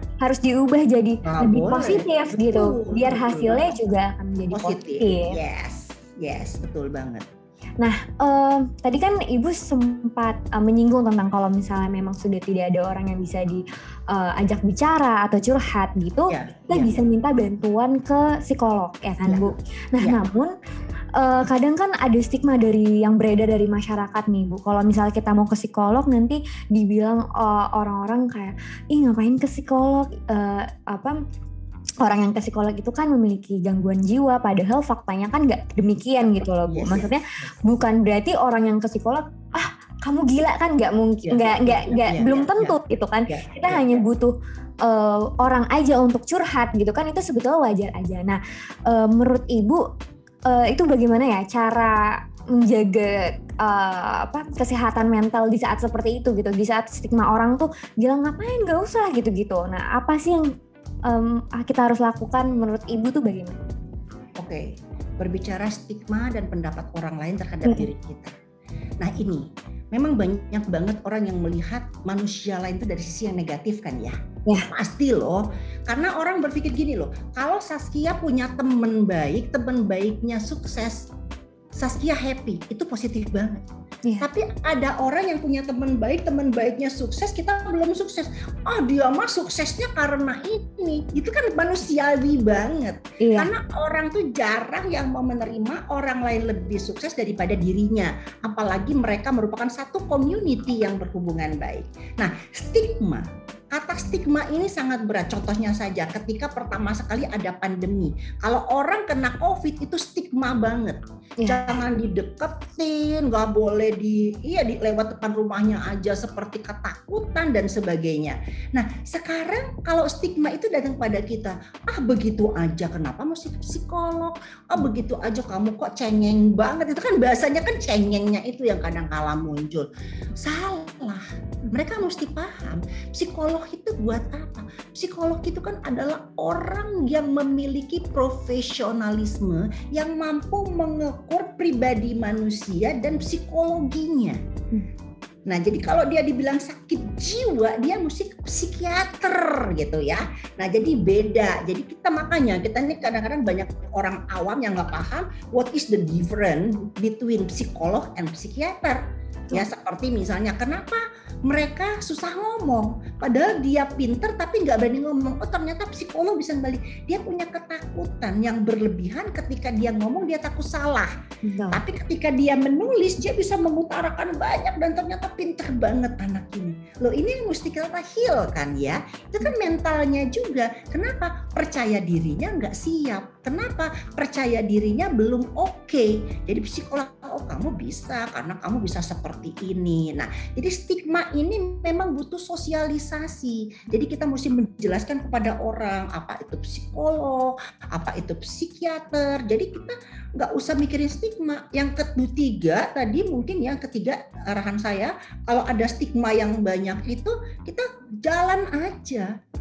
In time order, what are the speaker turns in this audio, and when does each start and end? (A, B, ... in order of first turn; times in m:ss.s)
0:00.2-0:05.4 A
0:01.2-0:03.7 B
0:04.5-0:07.3 B
0:07.8-0:20.5 A
0:16.3-0:17.0 B
0:19.2-0:20.2 B
0:21.2-0:31.2 A
0:32.0-0:44.3 A
0:36.7-0:37.5 B
0:41.2-0:42.8 B
0:43.3-0:44.0 B
0:44.8-0:49.8 A
0:50.5-1:00.5 A
1:01.1-1:03.6 A
1:04.4-1:08.3 B
1:09.0-1:21.1 B
1:21.7-1:23.6 B
1:24.2-2:24.4 B
1:33.2-1:33.5 A
1:51.4-1:51.8 A
2:25.5-2:51.1 B
2:51.4-2:51.8 A
2:51.7-3:29.3 B